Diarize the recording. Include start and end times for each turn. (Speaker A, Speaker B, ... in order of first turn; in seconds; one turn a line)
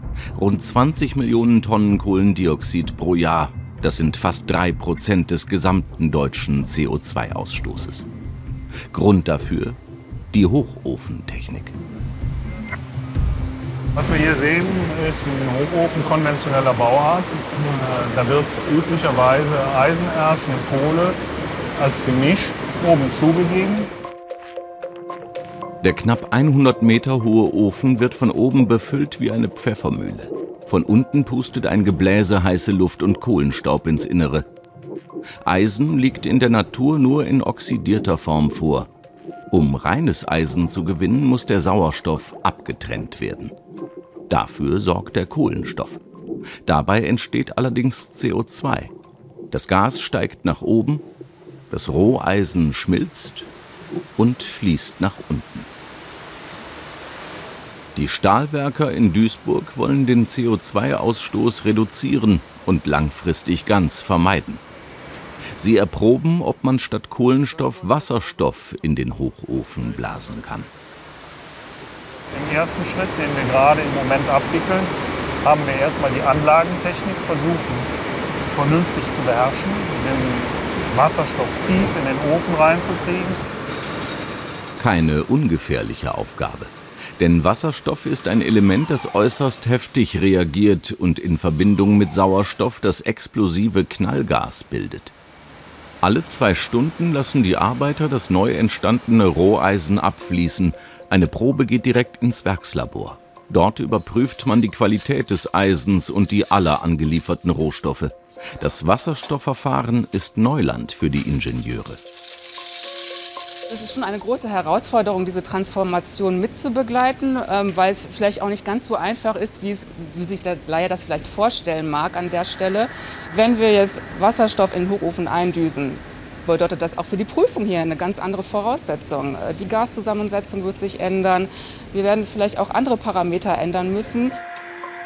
Speaker A: 0.3-8.1
Speaker A: 8.9-9.8
Speaker A: 10.3-11.8
Speaker B: 13.9-21.2
Speaker B: 21.8-23.9
Speaker A: 25.8-34.5
Speaker A: 35.4-38.9
Speaker A: 39.5-43.5
Speaker A: 44.3-46.0
Speaker A: 46.6-48.9
Speaker A: 49.5-51.0
Speaker A: 51.7-53.5
Speaker A: 54.2-55.7
Speaker A: 58.0-64.6
Speaker A: 65.6-70.7
Speaker B: 72.3-77.9
Speaker B: 78.5-83.4
Speaker A: 84.8-95.1
Speaker A: 96.0-112.0
Speaker C: 113.7-134.3